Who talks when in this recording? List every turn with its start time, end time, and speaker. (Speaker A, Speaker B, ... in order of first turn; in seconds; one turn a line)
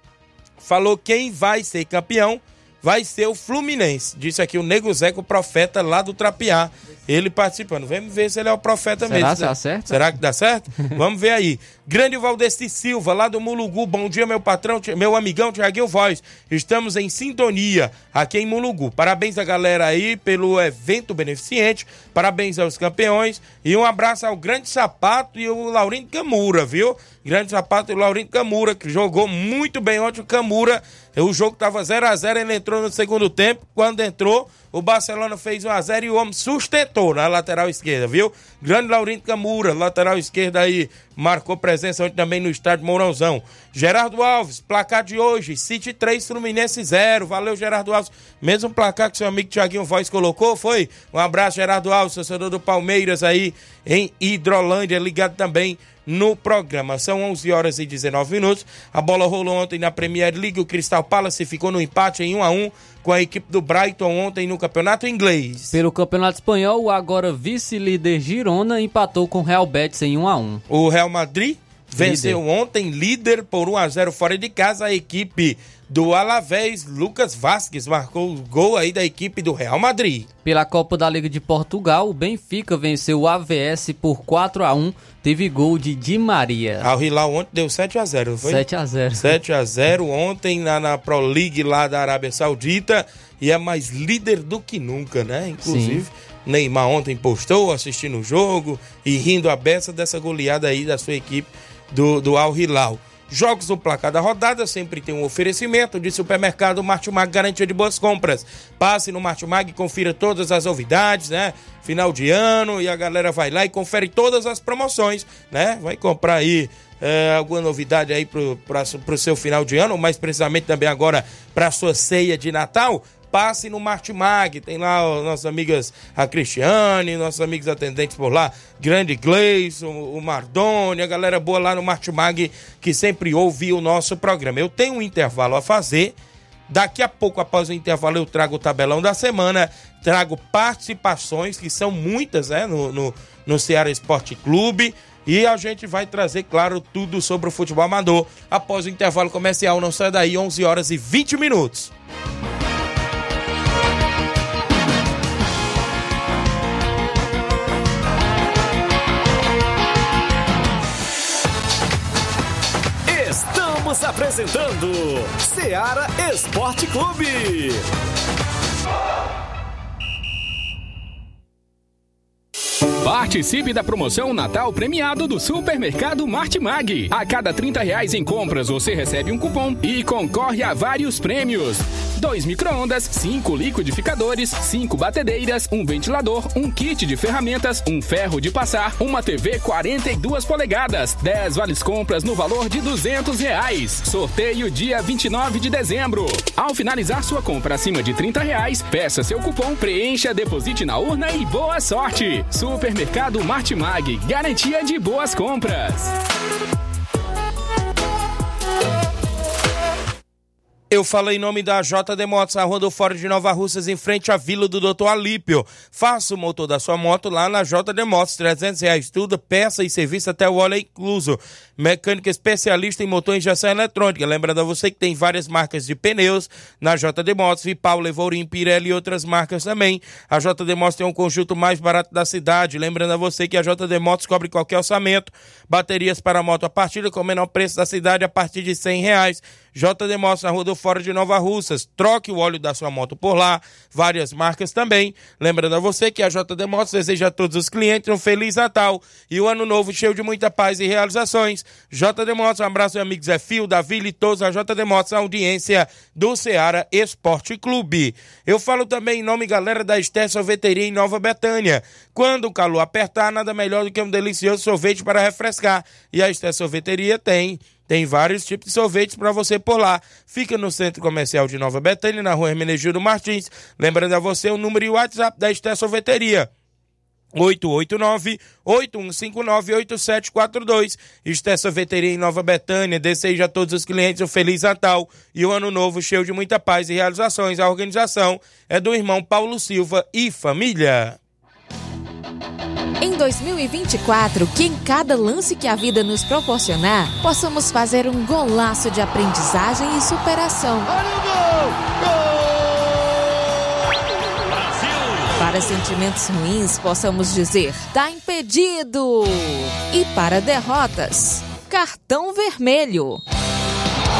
Speaker A: 0.6-65.8
Speaker B: 9.0-10.1
Speaker B: 65.7-70.6
Speaker A: 70.7-80.3
Speaker B: 72.0-72.4
Speaker B: 80.4-86.9
Speaker A: 86.8-88.6
Speaker B: 88.4-89.3
Speaker A: 89.2-136.1
Speaker B: 95.6-96.0
Speaker A: 136.7-151.9
Speaker C: 163.1-167.8
Speaker D: 173.0-206.1
Speaker A: 210.9-276.5
Speaker A: 277.3-291.2
Speaker E: 293.0-301.0
Speaker E: 305.3-313.2